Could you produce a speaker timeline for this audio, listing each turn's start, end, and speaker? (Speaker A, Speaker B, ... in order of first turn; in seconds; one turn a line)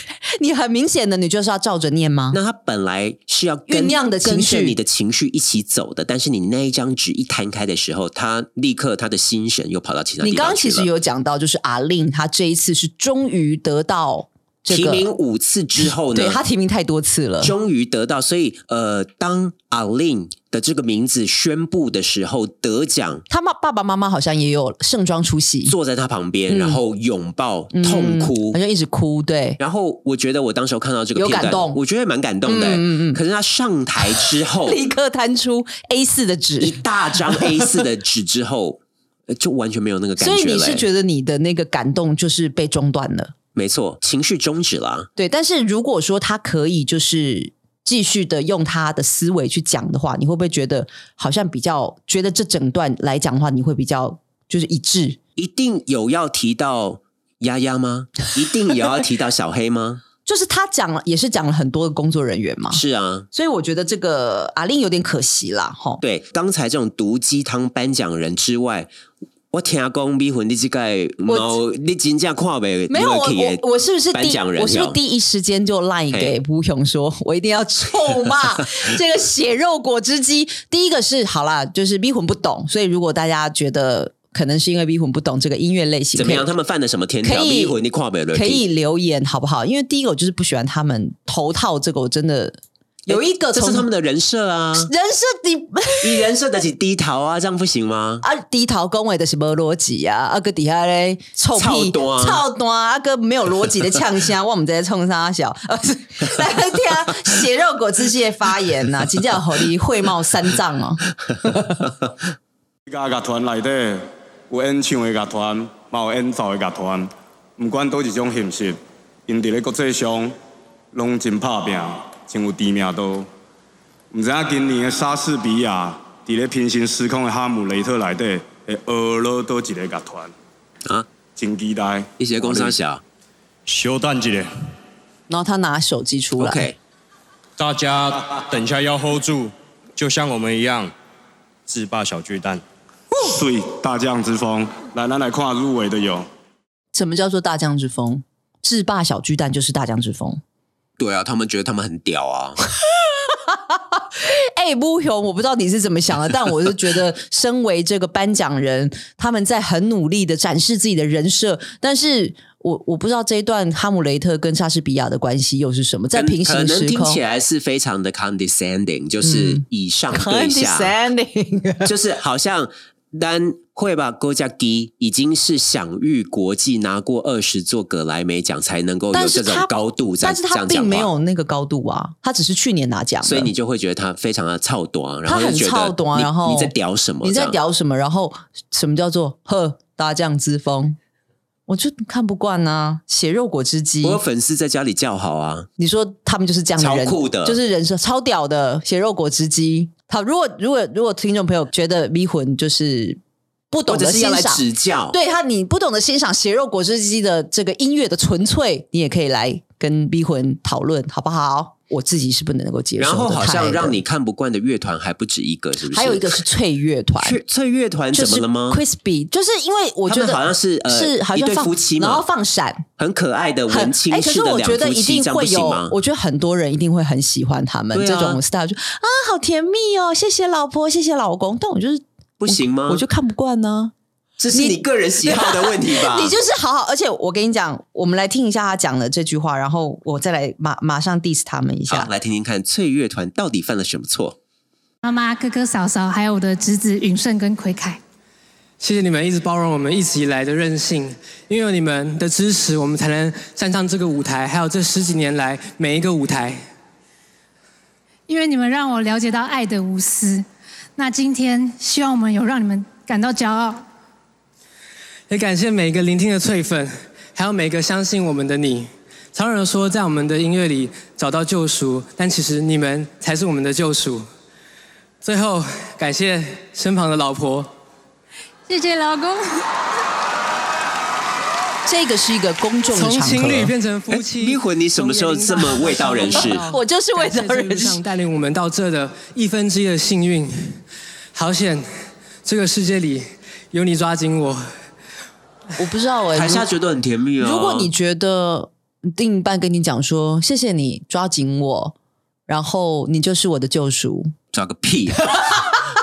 Speaker A: 0.4-2.4
Speaker B: 2.3-10.9
Speaker A: 3.7-4.8
Speaker A: 10.2-15.1
Speaker B: 14.7-16.4
Speaker A: 16.1-17.5
Speaker B: 17.4-23.2
Speaker A: 23.3-25.7
Speaker B: 25.6-28.6
Speaker A: 26.5-26.8
Speaker A: 27.7-29.6
Speaker B: 29.6-34.8
Speaker A: 31.1-31.8
Speaker A: 32.4-33.2
Speaker A: 34.1-37.6
Speaker B: 36.6-40.8
Speaker A: 40.2-43.3
Speaker B: 43.5-45.1
Speaker A: 45.2-55.2
Speaker B: 55.4-60.0
Speaker A: 60.2-62.8
Speaker B: 62.7-63.3
Speaker A: 63.3-66.0
Speaker B: 66.0-68.9
Speaker B: 69.5-75.0
Speaker A: 71.2-71.5
Speaker A: 72.9-86.5
Speaker B: 86.1-88.6
Speaker A: 87.2-87.8
Speaker A: 88.3-93.8
Speaker B: 93.1-94.9
Speaker A: 94.8-96.2
Speaker B: 96.0-98.2
Speaker A: 98.2-111.8
Speaker B: 101.5-102.4
Speaker C: 112.9-120.3
Speaker C: 120.9-123.3
Speaker C: 124.1-130.3
Speaker C: 131.3-132.1
Speaker B: 132.2-133.0
Speaker D: 133.7-134.5
Speaker A: 135.3-136.7
Speaker B: 136.4-136.8
Speaker D: 137.6-140.9
Speaker D: 141.7-142.6
Speaker C: 143.2-146.2
Speaker A: 146.9-150.4
Speaker B: 151.0-152.6
Speaker A: 153.2-167.2
Speaker B: 166.1-170.9
Speaker A: 169.2-171.9
Speaker B: 171.8-181.1
Speaker A: 179.1-183.5
Speaker B: 183.2-187.6
Speaker A: 185.2-191.0
Speaker A: 191.7-194.2
Speaker B: 194.0-195.7
Speaker A: 195.8-203.2
Speaker B: 196.8-197.6
Speaker A: 203.7-214.0
Speaker B: 203.9-205.2
Speaker B: 213.0-216.4
Speaker A: 215.9-217.4
Speaker B: 217.2-218.8
Speaker A: 218.1-222.8
Speaker B: 220.1-222.2
Speaker B: 223.0-225.9
Speaker A: 223.7-233.9
Speaker B: 227.9-228.4
Speaker B: 232.4-233.0
Speaker B: 234.4-236.3
Speaker A: 234.5-242.1
Speaker B: 241.9-244.4
Speaker E: 245.0-248.0
Speaker F: 248.8-256.6
Speaker E: 258.3-260.4
Speaker E: 261.0-263.8
Speaker F: 265.3-274.2
Speaker F: 275.2-277.7
Speaker E: 278.7-279.6
Speaker A: 281.9-283.7
Speaker F: 282.9-290.8
Speaker B: 284.1-286.6
Speaker A: 286.6-288.0
Speaker F: 291.3-291.9
Speaker F: 292.4-294.6
Speaker A: 295.8-296.7
Speaker B: 296.3-297.9
Speaker A: 297.4-301.9
Speaker A: 302.5-304.3
Speaker B: 304.5-305.4
Speaker A: 305.3-305.6